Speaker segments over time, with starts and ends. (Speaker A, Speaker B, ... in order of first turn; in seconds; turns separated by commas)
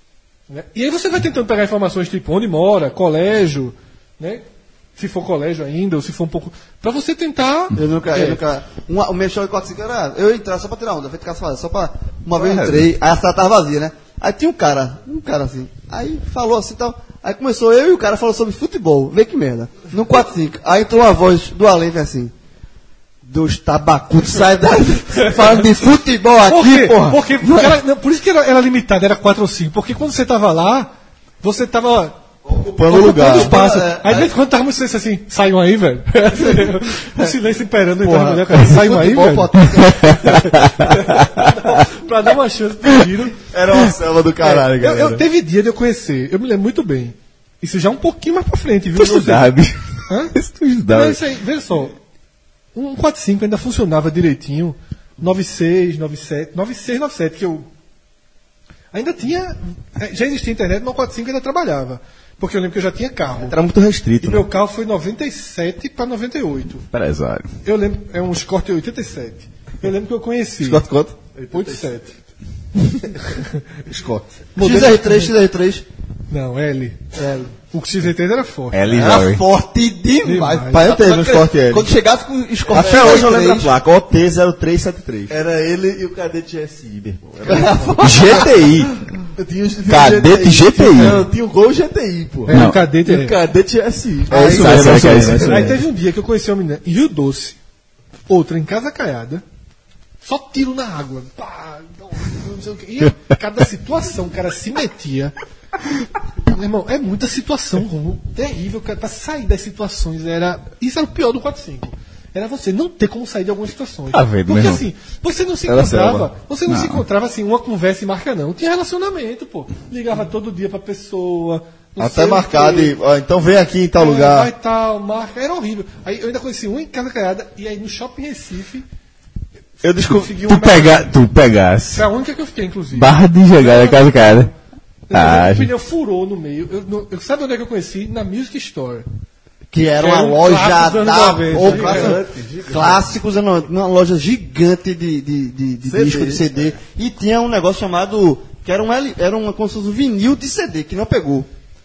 Speaker A: 0.5-4.5, Speaker A: 5.0-8.4, Speaker B: 7.8-22.3, Speaker C: 12.4-12.9, Speaker B: 23.2-27.7, Speaker A: 26.4-32.2, Speaker D: 32.5-33.6, Speaker A: 32.9-43.4, Speaker B: 33.3-34.3, Speaker B: 38.1-40.4, Speaker C: 39.8-41.5, Speaker D: 43.4-45.2, Speaker A: 44.4-49.5, Speaker C: 49.0-49.8, Speaker A: 50.1-50.3, Speaker C: 50.3-51.2, Speaker A: 50.9-52.0, Speaker A: 52.8-57.7, Speaker A: 58.9-63.6, Speaker D: 63.4-64.5, Speaker A: 64.2-66.9, Speaker C: 66.9-67.5, Speaker A: 67.6-70.8, Speaker D: 70.6-71.2, Speaker E: 71.4-71.8, Speaker A: 71.5-72.2, Speaker D: 73.9-74.4, Speaker A: 74.6-75.3, Speaker B: 74.6-75.8, Speaker A: 76.3-78.8, Speaker C: 78.7-79.4, Speaker B: 78.9-83.7, Speaker A: 80.2-80.9, Speaker D: 80.7-81.9, Speaker D: 82.7-85.3, Speaker E: 82.8-83.2, Speaker E: 85.3-88.1, Speaker B: 87.5-88.6, Speaker C: 88.0-89.0, Speaker E: 89.3-95.5, Speaker C: 89.9-91.2, Speaker A: 92.5-93.4, Speaker C: 92.5-92.8, Speaker D: 94.3-95.8, Speaker C: 94.3-95.7, Speaker A: 95.4-97.6, Speaker A: 98.3-99.4, Speaker A: 100.2-105.3, Speaker A: 106.5-122.9, Speaker C: 114.1-114.8, Speaker D: 115.7-116.3, Speaker C: 116.7-117.0, Speaker D: 122.0-124.5, Speaker A: 124.0-128.8, Speaker D: 129.8-130.3, Speaker A: 129.9-131.1, Speaker C: 130.4-132.1, Speaker A: 131.9-134.5, Speaker C: 132.9-134.5, Speaker A: 135.1-139.1, Speaker C: 135.1-135.7, Speaker B: 139.7-151.5, Speaker A: 140.0-142.2, Speaker E: 141.5-143.1, Speaker E: 145.9-146.4